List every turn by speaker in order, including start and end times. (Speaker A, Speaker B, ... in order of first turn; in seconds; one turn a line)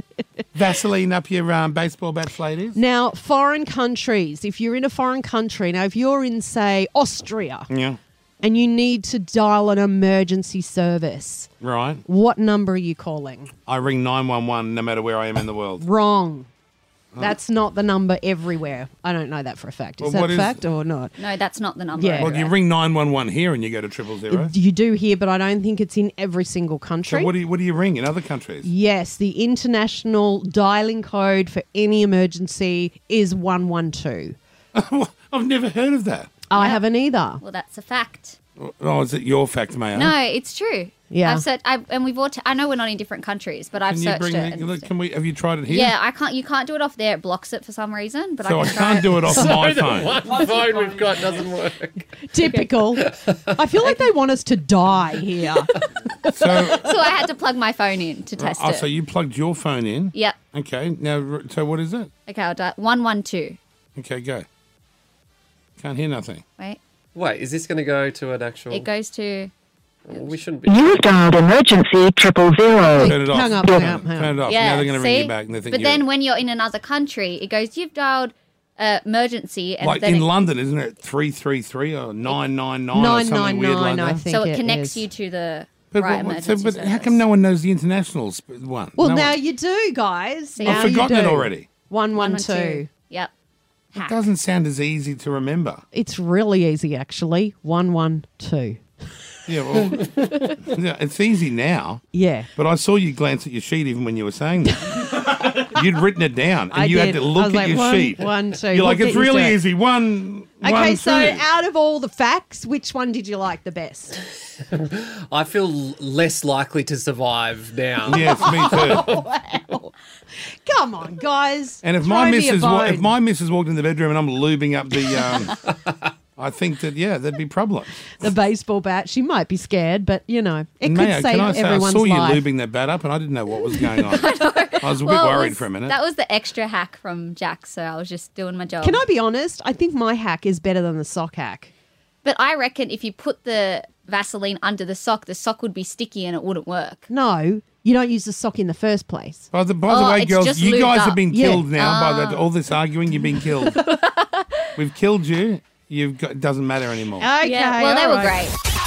Speaker A: 0.6-2.8
Speaker B: 2.8-7.7
Speaker A: 7.7-8.0
Speaker B: 8.4-11.5
Speaker A: 11.6-12.0
Speaker B: 12.1-13.5
Speaker A: 13.7-15.8
Speaker B: 15.8-16.5
Speaker B: 17.2-21.2
Speaker A: 20.0-20.6
Speaker C: 21.2-22.5
Speaker B: 21.9-22.4
Speaker A: 22.2-24.5
Speaker B: 24.3-27.3
Speaker A: 27.1-28.7
Speaker B: 28.6-34.4
Speaker A: 34.7-36.3
Speaker B: 36.5-37.4
Speaker C: 36.5-36.8
Speaker C: 37.4-38.4
Speaker A: 38.6-40.1
Speaker C: 39.9-44.9
Speaker B: 41.1-41.4
Speaker A: 43.9-46.0
Speaker C: 45.7-49.4
Speaker A: 48.4-50.2
Speaker D: 49.2-52.1
Speaker B: 52.3-55.8
Speaker D: 53.0-53.9
Speaker A: 56.3-57.0
Speaker C: 56.6-58.9
Speaker A: 58.4-62.1
Speaker C: 62.3-63.6
Speaker A: 64.0-64.5
Speaker A: 65.8-66.4
Speaker D: 67.2-68.9
Speaker C: 68.7-69.5
Speaker D: 70.1-71.2
Speaker E: 70.8-73.1
Speaker A: 73.0-76.1
Speaker B: 73.0-74.4
Speaker C: 74.5-80.3
Speaker A: 79.8-84.2
Speaker B: 82.9-85.0
Speaker C: 84.3-87.2
Speaker A: 85.9-89.4
Speaker B: 89.0-92.9
Speaker C: 90.5-91.0
Speaker A: 90.7-91.7
Speaker C: 92.2-93.3
Speaker C: 93.9-94.2
Speaker A: 94.0-95.8
Speaker B: 95.9-98.8
Speaker A: 99.5-102.0
Speaker B: 102.1-102.5
Speaker A: 102.6-111.5
Speaker B: 104.8-105.5
Speaker B: 106.7-109.6
Speaker B: 110.6-114.2
Speaker D: 114.7-119.2
Speaker A: 118.0-119.0
Speaker B: 118.3-123.1
Speaker A: 121.8-125.6
Speaker A: 126.4-128.1
Speaker B: 128.1-132.4
Speaker A: 130.8-136.0
Speaker C: 133.9-139.0
Speaker B: 138.8-141.7
Speaker C: 142.2-147.1
Speaker B: 147.1-149.5
Speaker A: 149.5-153.8
Speaker C: 149.9-151.2
Speaker B: 151.3-151.7
Speaker C: 151.7-152.5
Speaker C: 153.6-154.6
Speaker A: 154.8-157.3
Speaker B: 157.2-158.4
Speaker C: 157.4-158.6